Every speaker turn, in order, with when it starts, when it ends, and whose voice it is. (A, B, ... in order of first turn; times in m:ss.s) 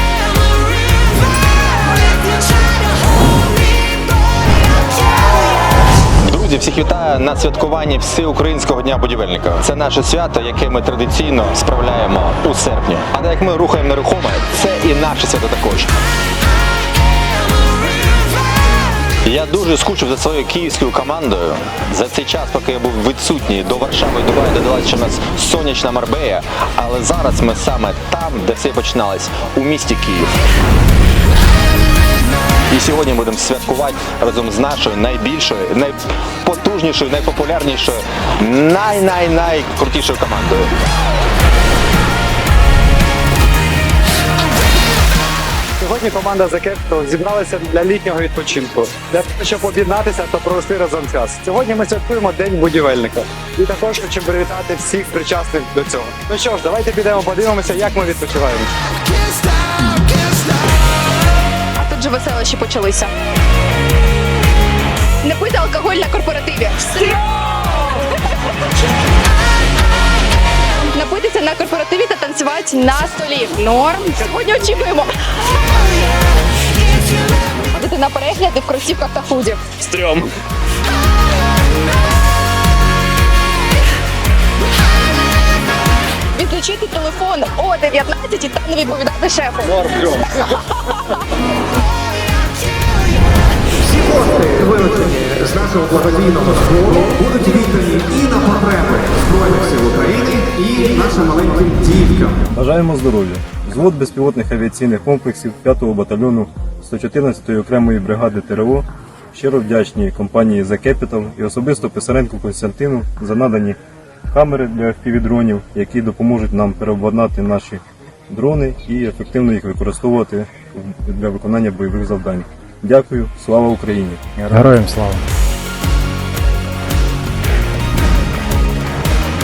0:06.2-0:15.9 A
0:19.2-0:30.3 A
0:32.7-0:40.7 A
0:45.8-0:58.7 B
1:01.8-1:03.1 C
1:05.2-1:08.2 C
1:10.9-1:15.1 C
1:17.7-1:19.7 C
1:19.9-1:20.3 A
1:26.3-1:31.0 C
1:34.1-1:42.3 D
1:42.5-1:53.8 E
1:54.3-2:04.4 E
2:04.5-2:05.2 D